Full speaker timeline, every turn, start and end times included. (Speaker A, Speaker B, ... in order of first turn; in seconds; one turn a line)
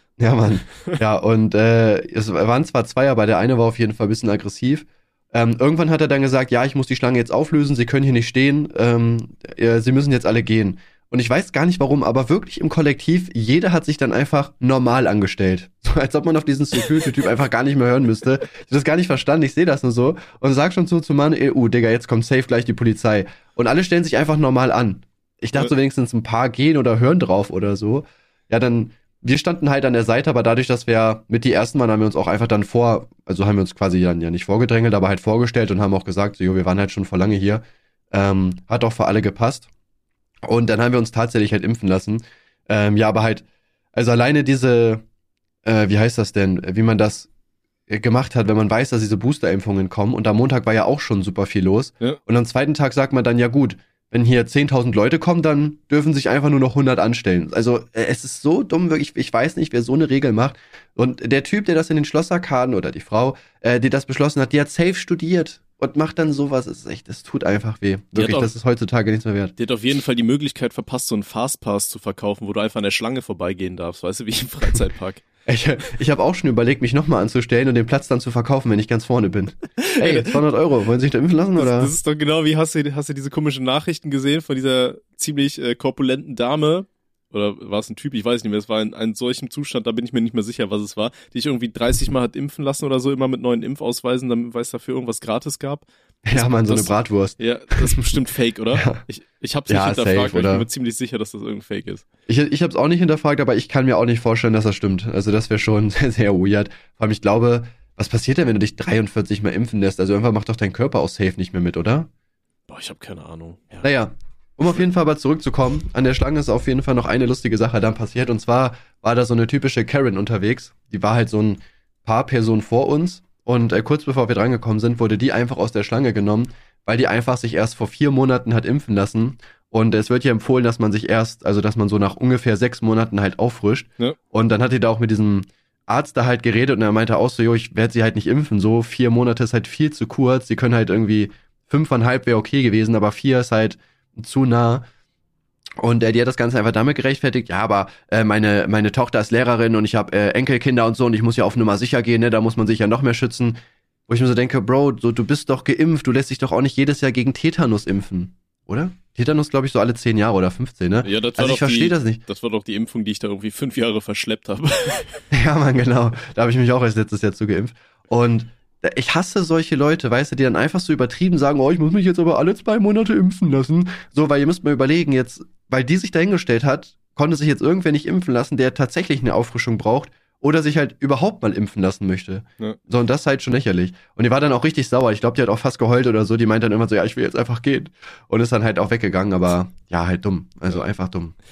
Speaker A: 0.2-39.7
Speaker A: 40.5-45.0
Speaker A: 45.6-47.3
Speaker A: 47.9-69.5
Speaker B: 68.1-68.5
Speaker B: 69.6-75.2
Speaker A: 75.5-81.9
Speaker B: 79.8-80.4
Speaker B: 81.6-102.0
Speaker A: 96.2-98.1
Speaker A: 98.7-99.0
Speaker A: 99.7-100.7
Speaker A: 102.3-112.1
Speaker B: 112.7-113.9
Speaker A: 113.8-144.9
Speaker A: 145.8-153.6
Speaker A: 154.1-162.2
Speaker B: 161.0-165.2
Speaker A: 165.3-191.3